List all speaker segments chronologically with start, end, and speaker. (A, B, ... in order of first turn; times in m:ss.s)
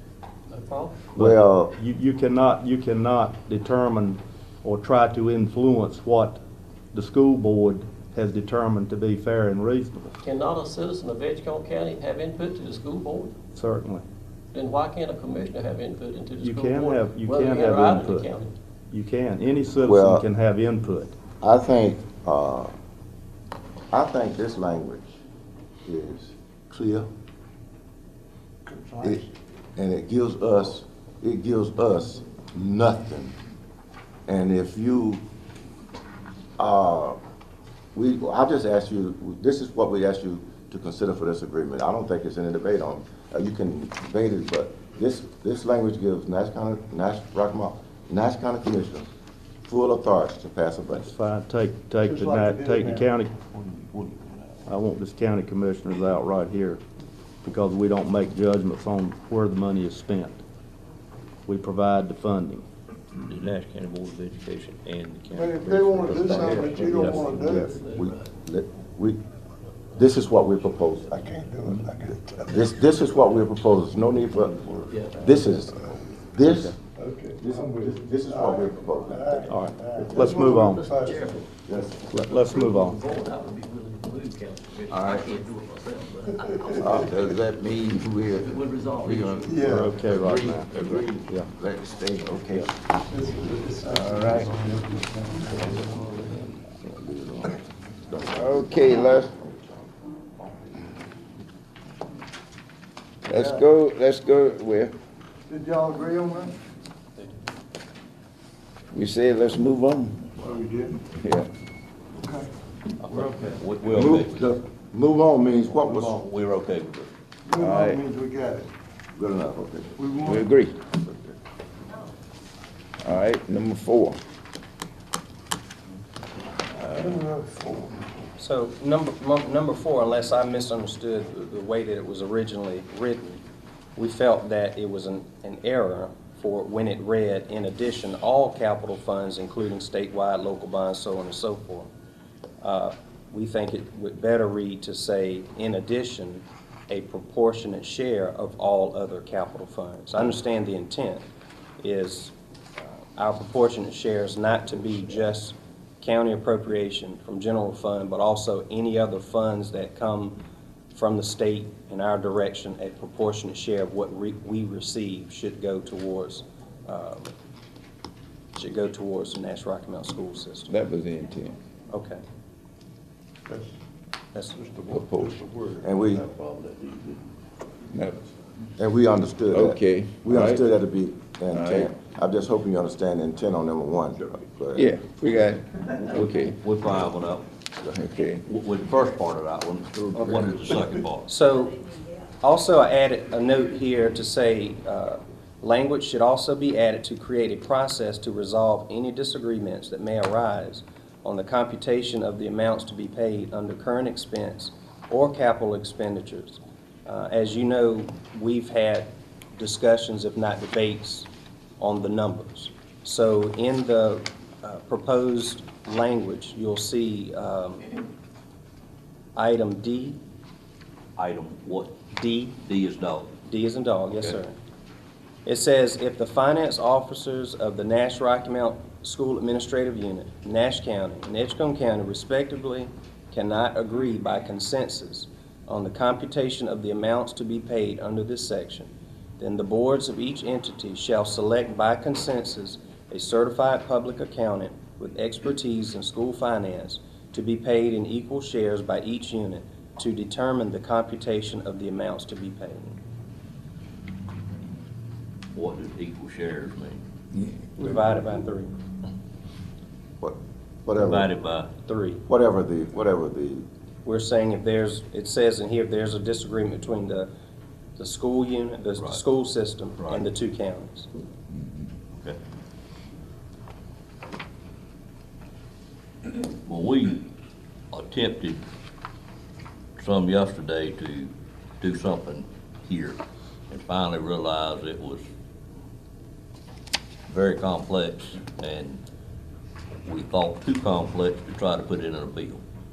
0:00.5-0:01.0 A
0:01.2-0:01.7 B
0:01.2-0:06.4 C
0:06.9-0:10.1 C
0:10.2-0:13.4 A
0:13.6-0:14.0 C
0:14.5-0:18.6 A
0:16.4-0:18.3 C
0:18.9-0:21.2 C
0:19.8-0:20.3 B
0:21.4-0:22.7 B
0:23.9-0:25.1 B
0:25.8-0:27.1 B
0:28.7-0:29.1 D
0:29.0-0:33.4 B
0:34.3-0:35.2 B
0:36.6-0:37.2 B
0:38.0-0:49.1 B
0:49.7-0:51.1 B
0:51.0-0:53.4 C
0:52.0-0:53.1 D
0:54.7-0:56.8 C
0:57.4-1:00.4 C
1:01.5-1:02.6 C
1:03.1-1:07.4 E
1:05.4-1:07.7 D
1:06.1-1:09.2 B
1:06.6-1:08.3 A
1:10.0-1:11.2 B
1:11.1-1:12.5 D
1:12.5-1:16.8 B
1:14.9-1:15.3 A
1:16.5-1:16.7 C
1:17.0-1:17.4 D
1:17.4-1:19.5 B
1:18.3-1:21.3 D
1:19.5-1:20.9 C
1:20.1-1:21.5 A
1:21.7-1:22.0 B
1:22.1-1:23.0 C
1:22.1-1:27.1 A
1:24.9-1:25.2 B
1:26.8-1:32.7 B
1:28.3-1:29.8 A
1:29.5-1:29.9 D
1:29.6-1:31.5 C
1:33.2-1:35.6 D
1:33.9-1:34.5 B
1:35.7-1:39.9 B
1:38.3-1:39.3 F
1:43.2-1:44.9 F
1:45.5-1:46.6 D
1:48.9-1:50.5 F
1:50.5-1:51.0 D
1:51.1-1:51.5 F
1:52.2-1:52.5 D
1:53.0-1:54.4 E
1:53.9-1:56.2 B
1:55.9-1:57.1 E
1:57.5-1:58.7 D
1:57.5-1:58.0 F
1:59.2-2:00.5 B
2:00.2-2:00.8 F
2:03.0-2:04.2 F
2:06.8-2:07.2 F
2:07.1-2:08.0 D
2:08.4-2:13.4 G
2:14.0-2:21.9 G
2:22.6-2:31.2 G
2:31.8-2:32.3 G
2:33.2-2:40.4 G
2:40.9-2:47.3 G
2:48.6-2:50.7 G
2:50.7-2:51.6 F
2:51.9-2:52.2 G
2:54.4-2:54.6 G
2:54.6-2:55.8 D
2:54.9-2:55.5 F
2:55.8-2:56.3 B
2:57.9-2:58.2 F
2:58.8-3:05.0 B
2:59.5-3:00.7 F
3:01.5-3:01.9 F
3:04.8-3:06.6 F
3:06.1-3:07.5 E
3:07.8-3:08.4 F
3:08.4-3:11.3 E
3:11.3-3:11.8 G
3:12.4-3:31.3 G
3:31.8-3:38.0 G
3:39.4-3:40.2 G
3:41.2-3:43.4 E
3:42.2-3:42.6 G
3:43.4-3:44.6 G
3:44.1-3:44.4 E
3:45.5-4:13.0 G
4:15.5-4:17.0 E
4:17.8-4:18.7 G
4:20.2-4:21.3 B
4:21.0-4:21.7 E
4:21.9-4:22.2 G
4:22.3-4:23.7 B
4:24.0-4:27.3 G
4:28.0-4:31.1 G
4:29.0-4:29.2 E
4:30.0-4:30.3 E
4:36.6-4:37.3 E
4:37.9-4:38.6 E
4:40.0-4:45.3 E
4:47.3-4:49.0 E
4:50.0-4:52.6 E